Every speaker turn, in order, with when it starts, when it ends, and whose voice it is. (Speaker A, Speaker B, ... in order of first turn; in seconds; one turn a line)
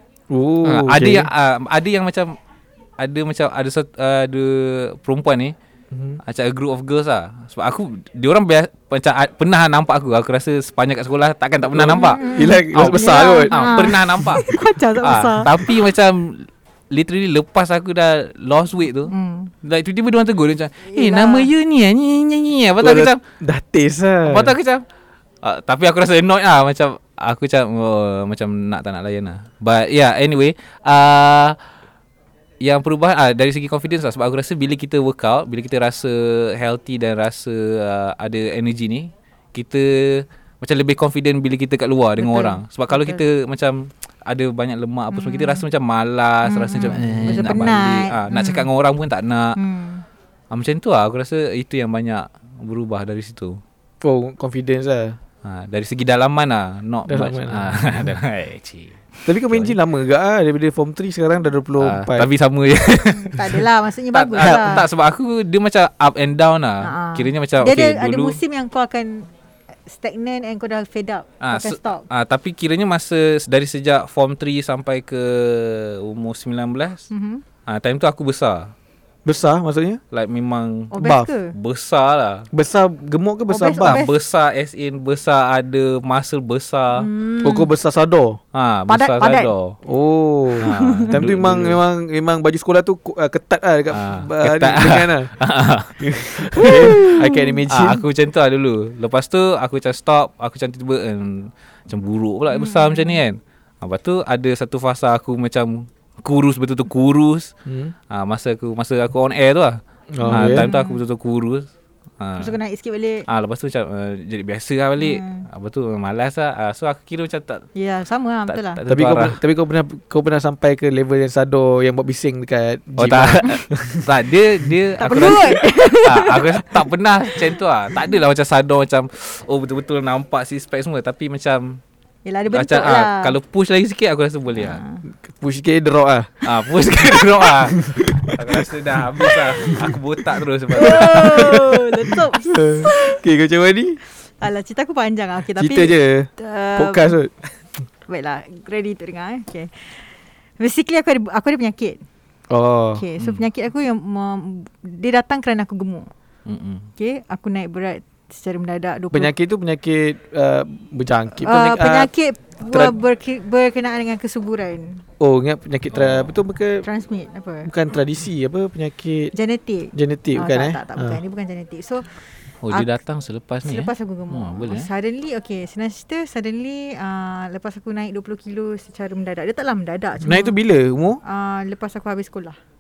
Speaker A: 0.3-1.3
Speaker B: 0.6-2.3
Speaker B: 3.0-5.5
Speaker A: 5.9-6.2
Speaker B: 6.2-23.2
Speaker A: 11.7-14.0
Speaker C: 11.9-15.7
Speaker C: 19.1-19.5
Speaker C: 20.9-21.5
Speaker A: 22.8-24.5
Speaker B: 24.2-24.8
Speaker B: 25.4-31.6
Speaker B: 32.6-49.6
Speaker C: 42.2-43.2
Speaker C: 45.1-45.6
Speaker C: 46.4-48.7
Speaker A: 47.0-47.5
Speaker C: 49.5-50.0
Speaker B: 50.5-53.6
Speaker A: 54.0-55.2
Speaker B: 55.4-59.8
Speaker A: 57.1-58.1
Speaker A: 59.2-62.3
Speaker B: 61.8-68.4
Speaker C: 63.1-64.8
Speaker A: 64.4-64.8
Speaker C: 66.8-69.3
Speaker C: 69.9-72.0
Speaker B: 71.4-77.0
Speaker C: 77.1-77.4
Speaker B: 77.7-78.7
Speaker A: 79.2-80.0
Speaker B: 80.1-82.5
Speaker C: 80.9-81.5
Speaker A: 81.0-81.3
Speaker A: 82.5-84.0
Speaker C: 83.5-84.1
Speaker B: 83.8-87.1
Speaker C: 86.9-87.7
Speaker A: 87.4-88.4
Speaker B: 88.5-89.8
Speaker C: 88.9-89.5
Speaker A: 89.8-95.3
Speaker B: 90.6-91.8
Speaker C: 90.6-91.1
Speaker B: 93.9-107.5
Speaker A: 96.0-98.0
Speaker C: 96.6-97.5
Speaker C: 102.5-103.2
Speaker A: 107.7-107.9
Speaker B: 108.1-109.8
Speaker A: 110.1-110.7
Speaker C: 110.2-111.0
Speaker B: 110.3-111.7
Speaker B: 112.2-112.5
Speaker C: 112.4-113.2
Speaker B: 113.3-117.7
Speaker C: 115.0-115.4
Speaker C: 117.7-118.8
Speaker B: 118.5-119.4
Speaker A: 118.9-124.1
Speaker B: 123.0-131.8
Speaker C: 125.0-126.8
Speaker C: 132.2-133.3
Speaker B: 132.5-134.8
Speaker C: 134.5-135.0
Speaker A: 135.2-136.4
Speaker B: 136.4-141.6
Speaker A: 137.8-140.0
Speaker C: 140.7-143.2
Speaker A: 140.8-144.0
Speaker C: 144.2-147.1
Speaker A: 145.6-147.3
Speaker C: 148.1-150.0
Speaker C: 150.6-152.0
Speaker A: 152.5-153.0
Speaker C: 152.9-156.1
Speaker B: 153.2-153.4
Speaker B: 156.4-156.9
Speaker C: 157.0-159.3
Speaker A: 159.1-162.1
Speaker C: 161.4-165.0
Speaker A: 165.2-166.8
Speaker B: 165.9-166.3
Speaker C: 166.8-167.7
Speaker A: 167.7-169.3
Speaker C: 169.3-172.1
Speaker A: 169.9-171.2
Speaker B: 172.6-174.9
Speaker C: 173.6-180.6
Speaker A: 180.2-181.2
Speaker C: 181.2-182.6